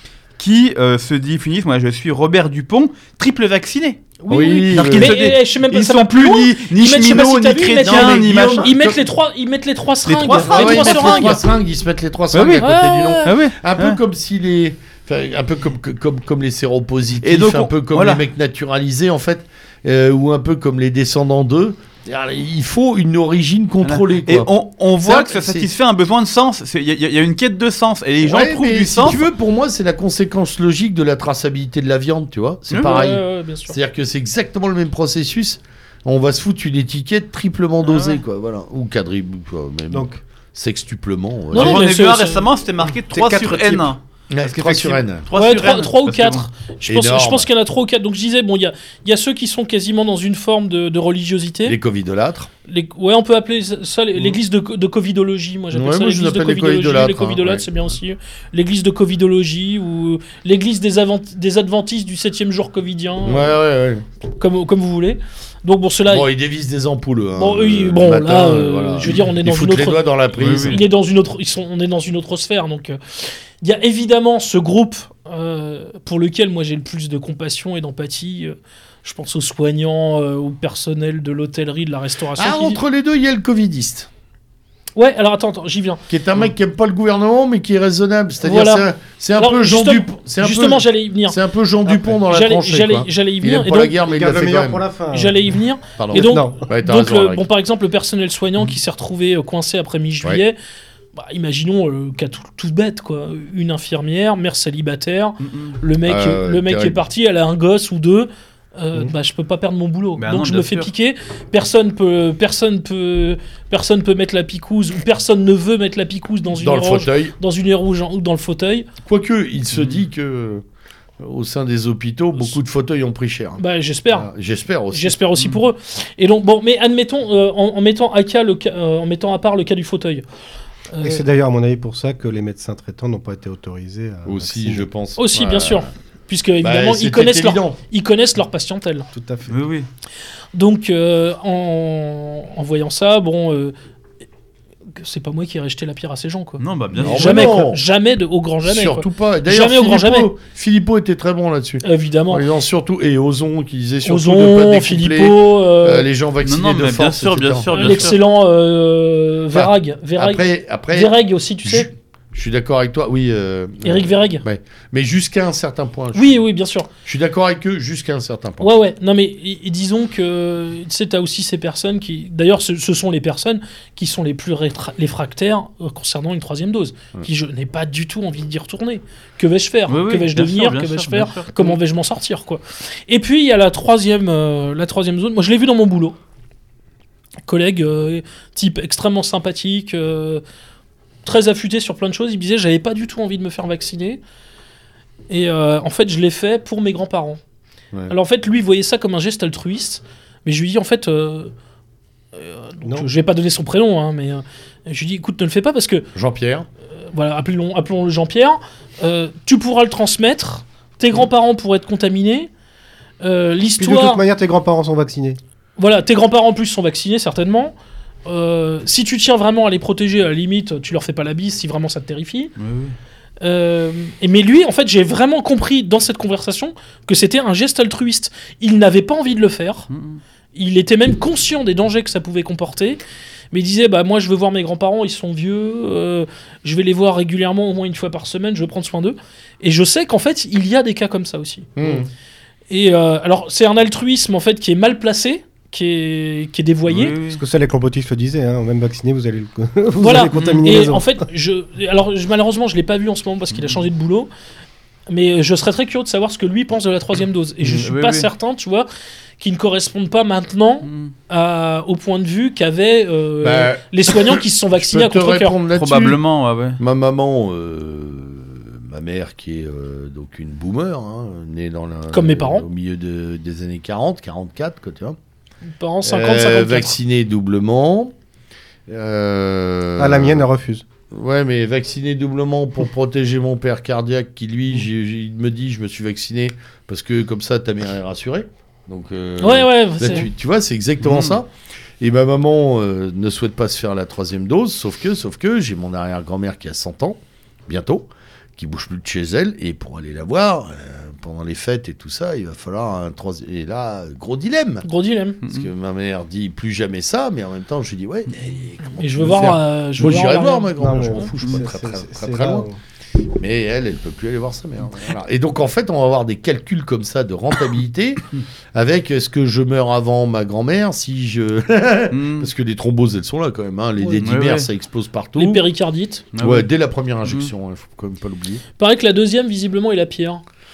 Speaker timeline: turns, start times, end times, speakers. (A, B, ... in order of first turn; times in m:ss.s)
0:00.4-0:04.0 A
0:04.2-0:11.4 B
0:04.3-0:05.2 C
0:04.7-0:08.8 A
0:07.8-0:09.0 C
0:10.0-0:11.4 A
0:10.4-0:25.7 C
0:12.3-0:12.7 A
0:12.6-0:13.4 B
0:13.2-0:14.0 A
0:17.2-0:18.2 A
0:23.8-0:29.2 A
0:28.2-0:41.9 C
0:32.7-0:33.0 A
0:32.8-0:33.8 B
0:37.8-0:38.2 A
0:39.9-0:40.2 D
0:41.5-0:42.5 B
0:41.5-0:46.4 A
0:43.1-0:43.9 D
0:44.3-0:45.2 C
0:45.3-0:51.8 B
0:46.9-0:47.5 C
0:51.6-0:52.5 C
0:52.7-1:03.6 B
0:55.7-0:57.8 C
1:03.2-1:04.0 C
1:04.4-1:06.3 B
1:06.1-1:10.8 C
1:07.4-1:22.8 B
1:10.4-1:10.8 A
1:22.4-1:24.1 C
1:25.0-1:26.0 B
1:26.1-1:34.8 C
1:28.4-1:31.4 B
1:32.0-1:33.9 B
1:34.0-1:35.4 D
1:35.1-1:40.6 B
1:36.0-1:37.4 C
1:36.1-1:36.7 D
1:41.1-1:58.9 B
1:45.4-1:45.8 A
1:46.0-1:47.0 C
1:50.2-1:50.9 A
1:56.6-1:57.3 C
1:59.0-2:00.6 C
1:59.7-2:00.0 A
2:01.2-2:05.2 C
2:03.6-2:04.3 B
2:04.9-2:10.2 B
2:10.9-2:11.2 B
2:11.0-2:14.9 D
2:14.2-2:15.9 C
2:15.2-2:19.1 B
2:16.6-2:17.8 C
2:19.1-2:19.6 D
2:19.5-2:19.9 A
2:20.5-2:23.7 B
2:25.0-2:30.3 B
2:26.6-2:27.6 A
2:27.0-2:27.8 C
2:28.6-2:38.1 C
2:31.8-2:32.4 B
2:34.0-2:36.1 B
2:36.4-2:38.2 A
2:37.7-2:41.9 B
2:39.5-2:46.4 C
2:43.8-2:44.4 B
2:46.1-2:46.9 B
2:47.0-2:48.7 C
2:48.6-3:06.2 B
2:59.9-3:01.8 A
3:07.4-3:10.4 B
3:11.2-3:14.2 B
3:15.3-3:17.4 B
3:18.1-3:21.5 B
3:22.3-3:26.0 B
3:26.1-3:26.7 C
3:27.1-3:32.5 B
3:33.2-3:34.2 B
3:33.8-3:35.4 D
3:35.8-3:37.7 B
3:38.2-3:42.5 B
3:42.6-3:42.9 A
3:43.4-3:49.9 B
3:49.9-3:50.2 A
3:50.5-3:53.0 B
3:53.5-4:01.7 B
4:01.8-4:02.1 C
4:02.7-4:07.2 B
4:06.9-4:07.4 A
4:07.3-4:11.2 D
4:10.0-4:14.3 B
4:10.3-4:10.7 A
4:15.1-4:18.9 B
4:17.6-4:18.3 A
4:19.4-4:25.6 B
4:20.8-4:21.1 A
4:23.4-4:26.2 C
4:25.7-4:26.8 A
4:26.8-4:35.2 C
4:32.1-4:32.6 B
4:35.7-4:36.9 B
4:36.0-4:38.1 C
4:38.9-4:40.4 C
4:40.0-4:40.8 D
4:41.1-4:51.5 C
4:49.4-4:50.2 B
4:51.0-4:51.4 A
4:52.0-5:04.8 C
5:04.8-5:05.4 B
5:05.4-5:05.7 A
5:05.4-5:12.6 C
5:08.9-5:11.2 B
5:10.8-5:12.8 D
5:13.4-5:25.6 C
5:22.1-5:22.5 A
5:24.2-5:24.7 A
5:25.4-5:26.2 B
5:26.3-5:26.7 A
5:26.4-5:28.6 C
5:28.8-5:30.4 B